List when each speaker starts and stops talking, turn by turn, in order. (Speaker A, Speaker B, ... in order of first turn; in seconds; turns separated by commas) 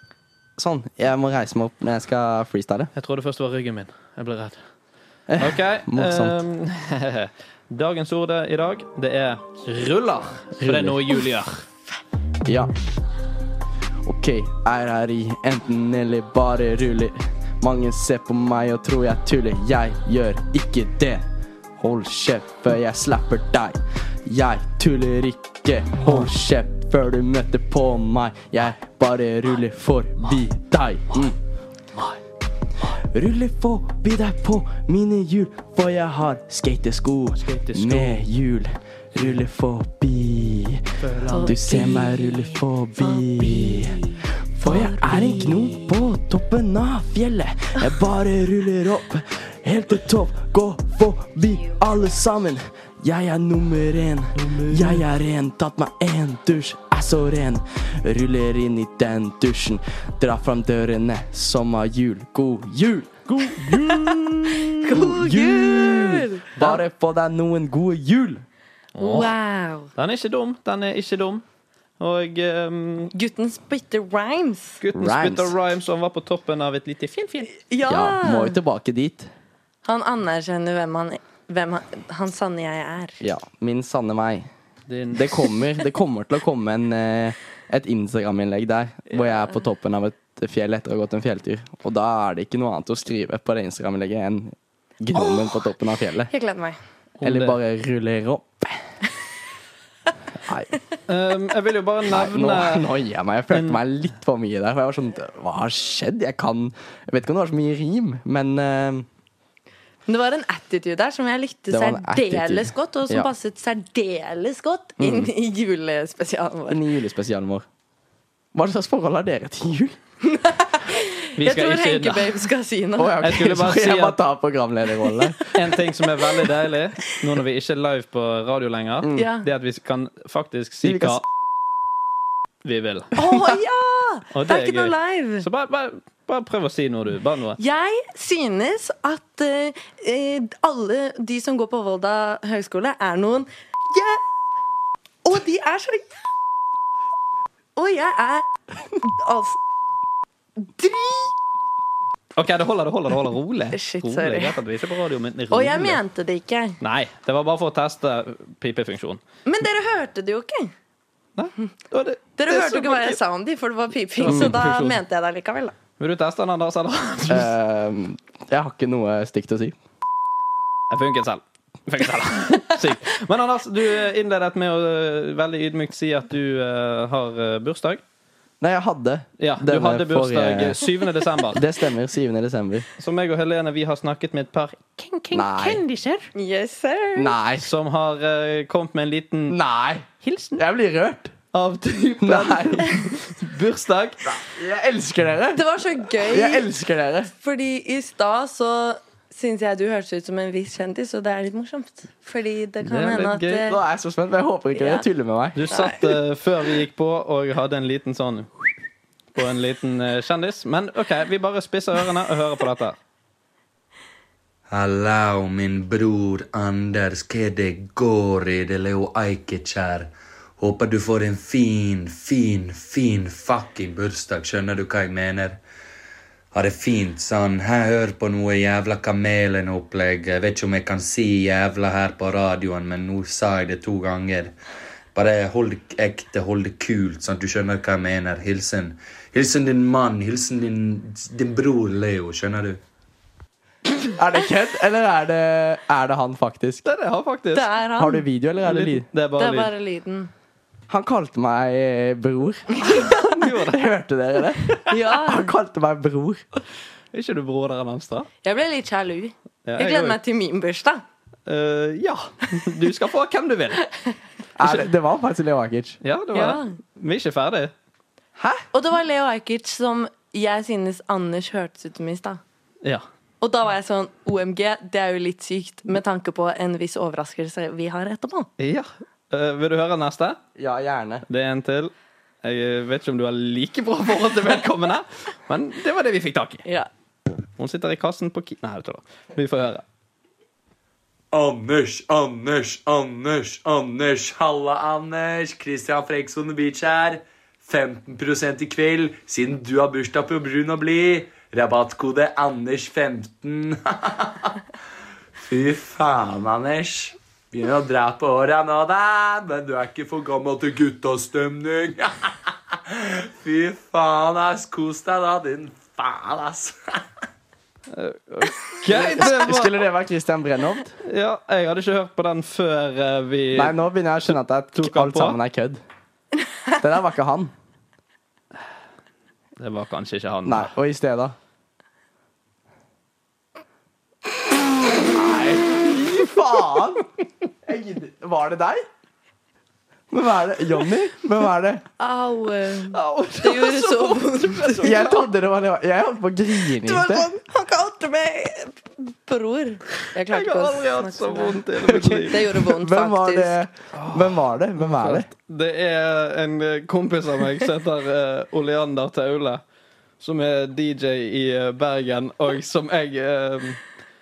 Speaker A: 0.6-2.9, Speaker B: 2.9-4.6, Speaker A: 5.3-6.4, Speaker B: 5.4-11.6, Speaker A: 10.6-11.1, Speaker A: 12.4-12.7, Speaker A: 14.0-21.2, Speaker A: 21.8-31.4, Speaker B: 31.9-32.2, Speaker A: 32.9-68.4, Speaker B: 37.4-38.2, Speaker B: 41.0-42.1, Speaker C: 41.3-42.5, Speaker C: 43.1-45.9, Speaker B: 45.1-45.4, Speaker B: 54.4-55.0, Speaker B: 63.3-64.5, Speaker C: 63.8-66.5, Speaker B: 68.9-69.3, Speaker C: 69.0-69.9, Speaker B: 69.9-71.4, Speaker B: 72.0-73.1, Speaker C: 73.1-74.8, Speaker B: 74.8-77.5, Speaker A: 74.9-75.5, Speaker C: 77.7-78.6, Speaker A: 77.8-79.3, Speaker C: 79.8-83.2, Speaker A: 83.2-84.5, Speaker B: 84.9-85.3, Speaker A: 85.1-96.3, Speaker C: 95.2-95.6, Speaker C: 96.3-96.8, Speaker B: 97.2-97.6, Speaker A: 97.2-98.8, Speaker A: 100.4-100.7, Speaker B: 101.1-102.9, Speaker A: 102.1-109.1, Speaker B: 103.5-103.8, Speaker C: 110.1-116.8, Speaker A: 111.7-113.3, Speaker A: 115.0-115.3, Speaker A: 116.7-117.7, Speaker A: 118.5-120.0, Speaker C: 120.2-123.3, Speaker B: 121.4-122.5, Speaker A: 123.0-125.5, Speaker B: 123.2-124.2, Speaker B: 125.5-131.2, Speaker A: 129.0-129.3, Speaker C: 129.2-129.5, Speaker A: 130.8-131.2, Speaker B: 132.6-133.2, Speaker C: 133.2-135.5, Speaker B: 134.3-137.6, Speaker C: 137.6-144.2, Speaker C: 145.2-146.1, Speaker C: 147.8-149.6, Speaker C: 150.6-151.3, Speaker B: 152.3-156.0, Speaker C: 153.7-154.6, Speaker C: 155.5-156.8, Speaker B: 156.8-159.2, Speaker C: 159.5-160.7, Speaker B: 161.3-163.2, Speaker C: 162.4-165.7, Speaker B: 164.2-165.0, Speaker A: 164.3-164.5, Speaker B: 166.0-167.5, Speaker A: 167.3-169.8, Speaker B: 170.9-178.0, Speaker A: 178.6-180.9, Speaker B: 179.4-181.7, Speaker A: 181.5-182.9, Speaker B: 183.0-186.3, Speaker A: 185.3-185.8, Speaker C: 186.3-187.3, Speaker A: 187.2-187.7, Speaker B: 187.6-189.6, Speaker A: 189.5-191.3, Speaker B: 190.2-190.6, Speaker B: 191.5-194.3, Speaker A: 192.2-193.0, Speaker A: 194.2-197.3, Speaker C: 195.5-196.7, Speaker C: 197.3-203.8, Speaker B: 202.8-203.7, Speaker A: 203.7-205.9, Speaker C: 204.7-205.1, Speaker B: 205.6-208.7, Speaker C: 205.7-206.1, Speaker B: 209.3-213.0, Speaker D: 214.7-225.6, Speaker D: 226.5-234.5, Speaker D: 235.2-242.8, Speaker A: 244.2-246.8, Speaker B: 246.8-247.7, Speaker C: 247.5-248.2, Speaker A: 248.0-249.1, Speaker B: 248.6-249.7, Speaker C: 249.4-250.3, Speaker A: 250.9-253.0, Speaker C: 252.7-253.4, Speaker B: 252.8-253.8, Speaker A: 253.6-256.4, Speaker C: 254.8-255.5, Speaker B: 257.1-258.3, Speaker C: 258.4-261.0, Speaker B: 259.6-260.2, Speaker B: 261.5-263.8, Speaker A: 264.6-266.0, Speaker B: 266.0-267.7, Speaker C: 266.3-266.7, Speaker A: 268.4-268.6, Speaker C: 268.7-272.4, Speaker C: 273.4-278.5, Speaker B: 278.6-280.4, Speaker A: 280.6-281.2, Speaker B: 281.3-286.6, Speaker B: 287.6-289.8, Speaker D: 291.3-304.6, Speaker D: 305.4-317.0, Speaker B: 317.9-319.9, Speaker A: 318.8-321.0, Speaker B: 321.0-323.8, Speaker A: 323.5-325.8, Speaker B: 324.3-325.4, Speaker A: 326.8-327.5, Speaker B: 329.6-330.7, Speaker A: 330.4-331.4, Speaker A: 335.0-337.1, Speaker A: 337.6-338.9, Speaker A: 340.1-341.8, Speaker C: 342.0-345.0, Speaker B: 342.9-345.3, Speaker A: 344.8-347.3, Speaker C: 346.7-353.6, Speaker B: 350.3-352.5, Speaker A: 351.8-355.3, Speaker B: 353.9-359.6, Speaker B: 360.2-363.8